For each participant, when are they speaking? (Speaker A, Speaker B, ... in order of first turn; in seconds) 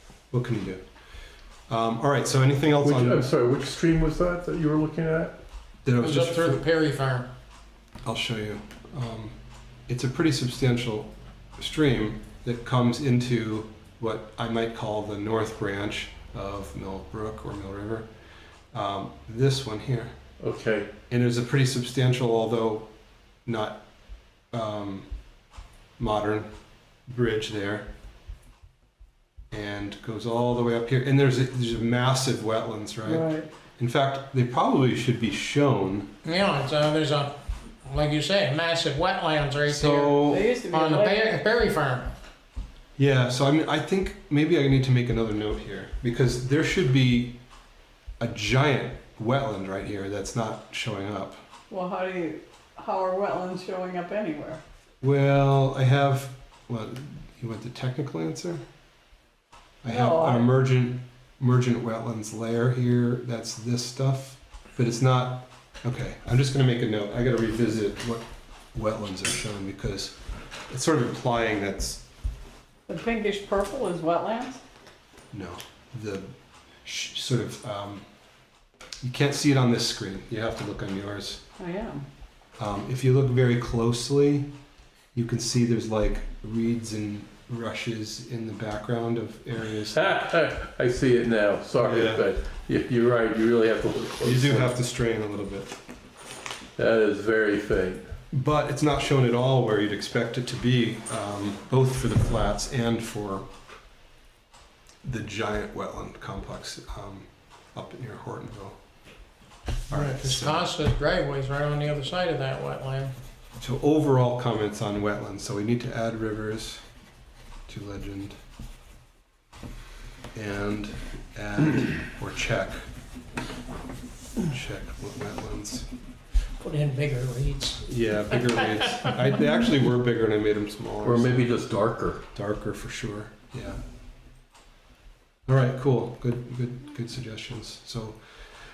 Speaker A: 0.3-0.8, 1.7-3.3, 5.8-6.6, 8.0-9.3, 9.9-18.1, 18.7-20.1, 21.1-22.9, 23.4-23.8, 24.5-25.1, 26.0-26.5, 27.1-27.9, 29.5-36.1, 39.6-40.4, 43.0-47.4, 48.2-51.4, 55.0-58.6, 59.8-70.2, 70.7-72.0, 75.3-76.3, 76.8-78.0, 79.0-81.4, 82.6-84.5, 85.1-90.2, 91.8-92.2, 94.2-95.8, 98.3-103.5, 105.0-108.8, 109.9-110.7, 113.6-116.8, 117.7-118.3, 120.3-122.8, 124.4-125.9, 127.8-131.5, 132.3-133.8, 135.5-138.2
Speaker B: 2.8-5.3, 20.4-20.9, 89.9-94.7, 96.8-98.0, 131.0-132.2
Speaker C: 6.0-7.3, 36.2-37.3, 37.9-42.1, 109.9-113.1, 126.6-127.8
Speaker D: 33.0-33.5, 40.2-41.4, 51.7-54.6, 59.9-60.4, 72.9-74.6, 81.6-82.0